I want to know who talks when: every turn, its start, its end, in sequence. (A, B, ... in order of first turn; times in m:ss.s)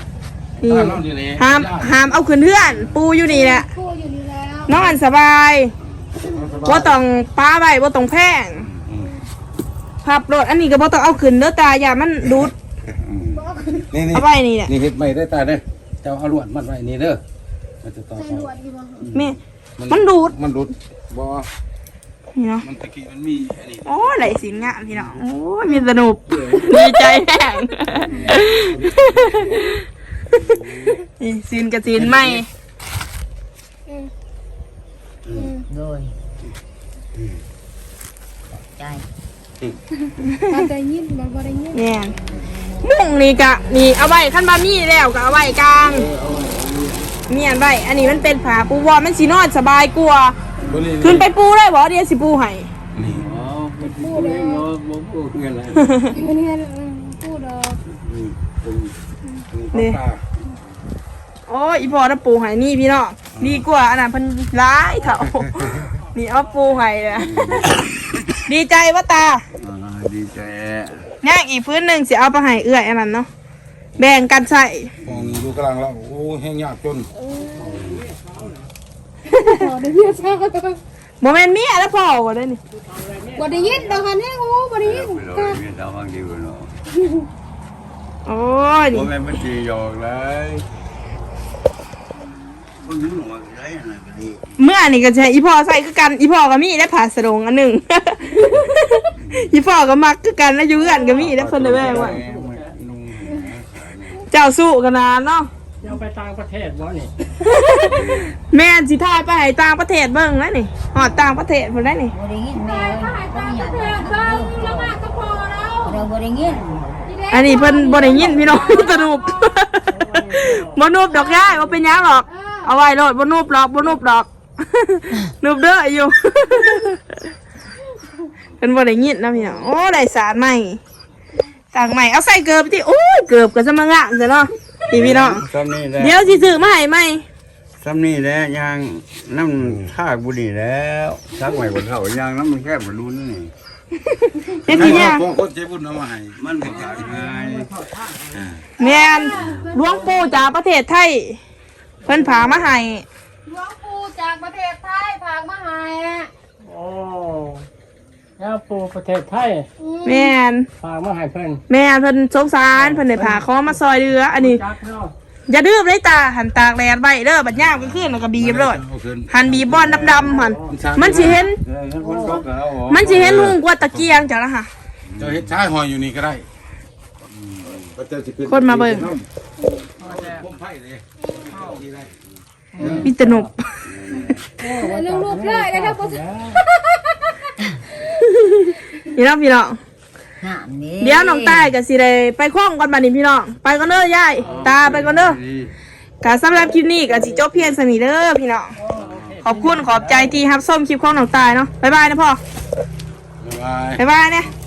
0:00.6-0:02.3 A
0:00.6-0:03.7 B
0:02.6-0:03.0 C
0:03.2-0:04.9 D
0:04.7-0:05.7 B
0:06.2-0:07.0 A
0:06.6-0:08.6 B
0:08.9-0:09.1 A
0:10.0-0:12.5 B
0:13.0-0:13.4 C
0:13.3-0:13.9 D
0:13.9-0:17.2 A
0:14.1-0:14.7 B
0:17.8-0:18.5 A
0:18.2-0:19.1 D
0:19.0-0:19.3 C
0:19.8-0:21.5 A
0:19.9-0:20.3 B
0:22.4-0:22.6 B
0:22.6-0:25.1 A
0:23.8-0:29.8 B
0:26.3-0:26.8 C
0:28.0-0:28.4 C
0:28.1-0:28.4 E
0:28.5-0:29.6 A
0:30.3-0:31.0 C
0:30.9-0:32.4 B
0:35.3-0:35.6 D
0:35.7-0:36.1 E
0:38.5-0:39.0 E
0:40.2-0:40.6 B
0:40.5-0:41.8 D
0:41.7-0:42.1 B
0:42.8-0:46.1 B
0:45.8-0:47.2 C
0:47.3-0:50.4 B
0:50.6-0:51.3 A
0:51.0-0:52.7 B
0:52.9-0:53.3 A
0:53.0-0:56.2 C
0:53.8-0:54.6 D
0:56.1-0:57.8 D
0:57.9-0:58.9 C
0:59.5-1:00.2 A
0:59.7-1:00.0 B
1:01.5-1:07.3 B
1:03.3-1:03.6 A
1:07.2-1:07.9 C
1:08.4-1:09.4 B
1:09.6-1:11.0 C
1:11.2-1:13.3 B
1:14.0-1:14.9 B
1:15.0-1:17.1 A
1:15.0-1:15.5 C
1:17.2-1:17.8 D
1:17.6-1:18.2 C
1:17.9-1:18.7 F
1:19.3-1:20.8 D
1:19.3-1:19.6 B
1:21.2-1:22.6 B
1:22.7-1:24.0 F
1:23.3-1:25.6 D
1:24.8-1:26.7 C
1:28.2-1:29.1 B
1:28.9-1:30.6 C
1:32.8-1:34.6 C
1:34.6-1:42.2 B
1:39.2-1:39.5 C
1:40.9-1:41.3 D
1:41.0-1:44.2 C
1:42.1-1:42.7 F
1:44.3-1:45.5 B
1:45.8-1:47.1 F
1:47.4-1:52.1 B
1:47.8-1:48.3 C
1:52.1-1:55.0 E
1:52.5-1:56.0 D
1:55.8-1:57.2 E
1:57.0-1:59.7 D
1:57.3-2:07.2 B
1:58.2-1:58.8 E
1:59.9-2:00.6 F
2:01.0-2:02.7 D
2:08.6-2:10.8 B
2:11.7-2:15.4 B
2:14.9-2:16.2 C
2:16.0-2:17.2 B
2:17.8-2:23.5 C
2:19.6-2:19.9 A
2:24.1-2:25.2 B
2:24.6-2:27.2 A
2:24.7-2:25.1 C
2:26.4-2:27.7 C
2:26.9-2:27.2 D
2:27.4-2:28.3 F
2:28.3-2:28.6 A
2:28.8-2:31.4 B
2:28.8-2:30.5 D
2:32.0-2:33.0 B
2:33.4-2:36.3 D
2:36.6-2:37.6 F
2:38.4-2:39.7 F
2:39.8-2:40.3 D
2:40.0-2:40.7 B
2:40.8-2:41.6 F
2:41.7-2:44.6 B
2:42.7-2:43.4 F
2:44.3-2:45.1 F
2:45.5-2:51.6 B
2:47.9-2:51.4 A
2:49.8-2:50.3 C
2:50.4-2:50.7 F
2:51.3-2:53.3 C
2:52.9-2:54.7 B
2:53.0-2:54.2 A
2:55.0-2:55.6 C
2:55.2-2:56.4 A
2:57.3-2:57.9 C
2:57.9-2:59.3 A
2:58.5-2:59.1 B
2:59.6-2:59.9 D
3:00.0-3:02.1 A
3:00.0-3:00.4 F
3:01.2-3:01.6 D
3:02.8-3:03.1 E
3:03.0-3:03.3 F
3:03.0-3:03.7 B
3:03.8-3:04.5 C
3:04.6-3:07.5 D
3:04.8-3:06.6 F
3:08.4-3:09.8 B
3:10.4-3:11.7 E
3:11.0-3:15.4 B
3:14.4-3:15.7 C
3:16.2-3:18.7 B
3:18.8-3:20.3 F
3:18.9-3:19.4 C
3:19.4-3:22.4 B
3:23.4-3:24.0 A
3:24.0-3:24.5 B